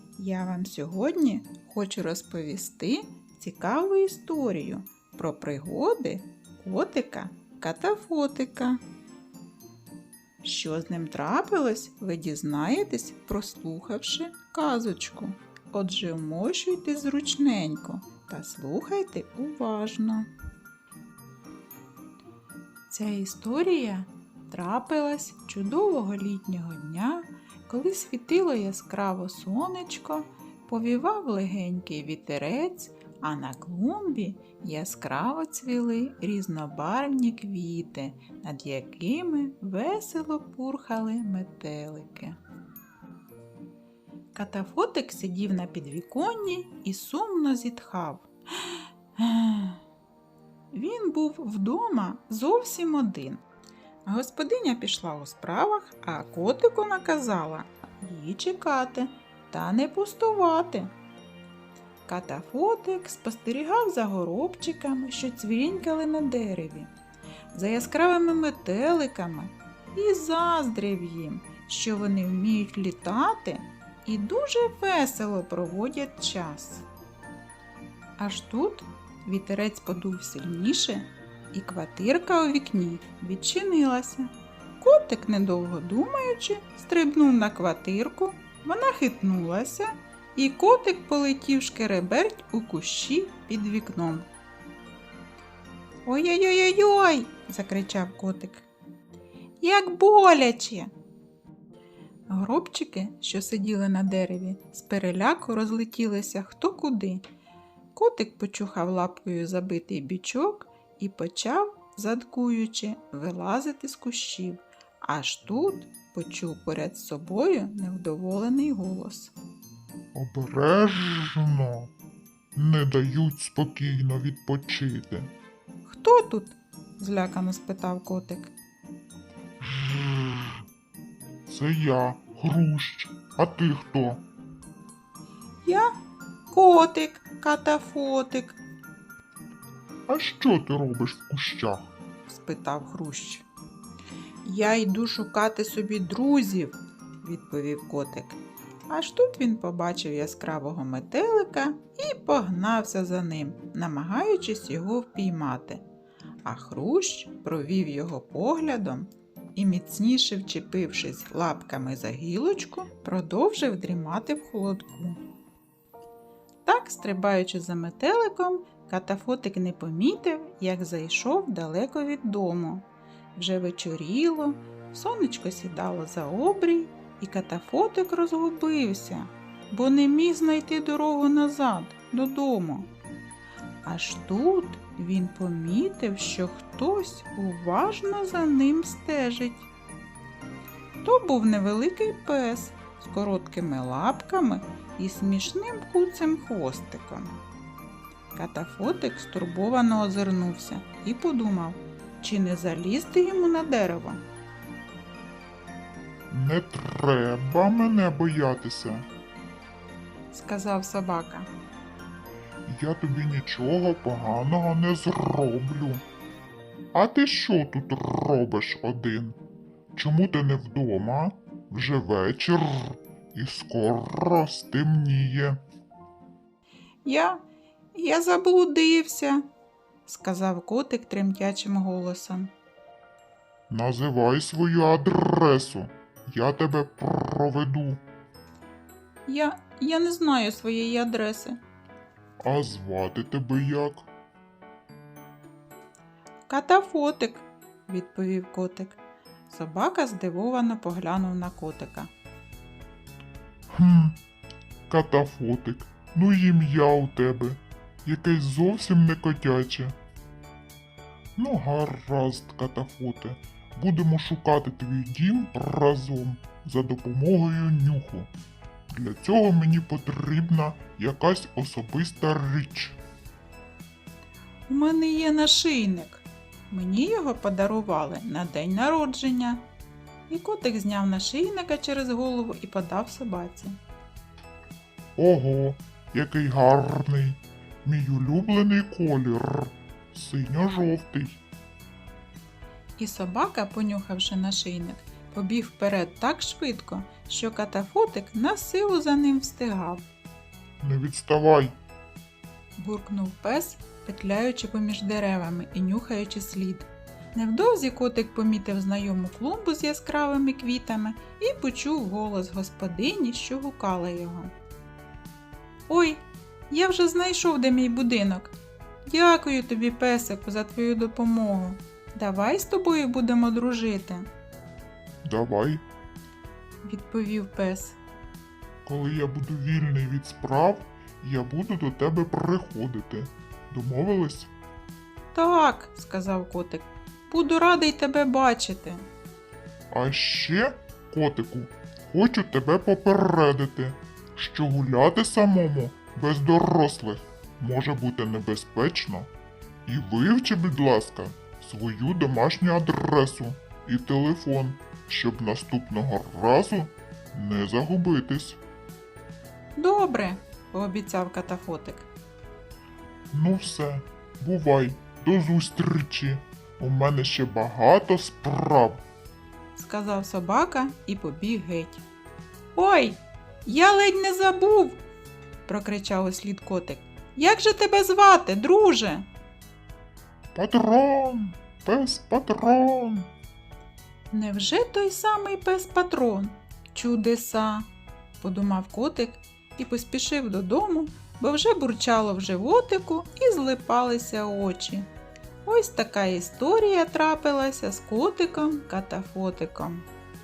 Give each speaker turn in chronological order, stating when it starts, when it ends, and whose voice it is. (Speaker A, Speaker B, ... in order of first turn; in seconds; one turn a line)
Speaker A: 0.2-8.8
Speaker A: 10.4-20.3
Speaker A: 22.9-42.4
Speaker A: 44.3-49.8
Speaker A: 50.7-53.4
Speaker A: 54.0-60.9
Speaker A: 62.1-66.9
Speaker A: 67.5-76.8
Speaker A: 78.2-84.3
Speaker A: 84.8-94.3
Speaker A: 96.0-98.7
Speaker A: 99.6-100.9
Speaker A: 102.3-107.2
Speaker A: 108.0-119.3
Speaker B: 120.1-121.9
Speaker B: 122.5-125.3
Speaker A: 125.8-128.5
Speaker B: 129.6-130.6
Speaker B: 131.4-134.2
Speaker A: 135.6-135.9
Speaker A: 136.5-138.6
Speaker B: 140.1-141.9
Speaker A: 142.3-143.4
Speaker A: 144.4-155.8
Speaker A: 156.4-165.2
Speaker A: 166.6-182.9
Speaker A: 183.8-189.7
Speaker A: 191.0-197.3
Speaker A: 198.3-204.2
Speaker B: 206.3-209.1
Speaker A: 210.3-211.5
Speaker B: 212.7-216.0
Speaker B: 216.9-219.4
Speaker B: 219.9-225.6
Speaker A: 227.0-227.4
Speaker A: 227.9-229.5
Speaker A: 230.1-232.5
Speaker B: 233.7-238.0
Speaker A: 239.2-241.6
Speaker B: 242.4-244.1
Speaker A: 246.5-249.0
Speaker A: 249.5-252.1
Speaker B: 253.7-254.2
Speaker B: 254.9-260.0
Speaker B: 261.4-268.3
Speaker B: 268.9-273.0
Speaker A: 274.7-279.6
Speaker A: 280.3-283.8
Speaker B: 285.1-291.4
Speaker A: 293.0-300.1
Speaker B: 300.8-301.7
Speaker A: 302.8-314.5
Speaker A: 315.9-324.3
Speaker B: 325.2-325.8
Speaker A: 326.8-328.0
Speaker B: 328.8-334.5
Speaker A: 335.3-339.0
Speaker B: 339.9-349.3
Speaker B: 349.9-358.6
Speaker A: 359.8-362.1
Speaker B: 363.3-369.0
Speaker A: 369.8-372.0
Speaker A: 372.7-375.0
Speaker A: 375.6-379.3
Speaker B: 380.5-383.3
Speaker A: 384.3-387.9
Speaker A: 388.4-395.1
Speaker A: 395.6-400.0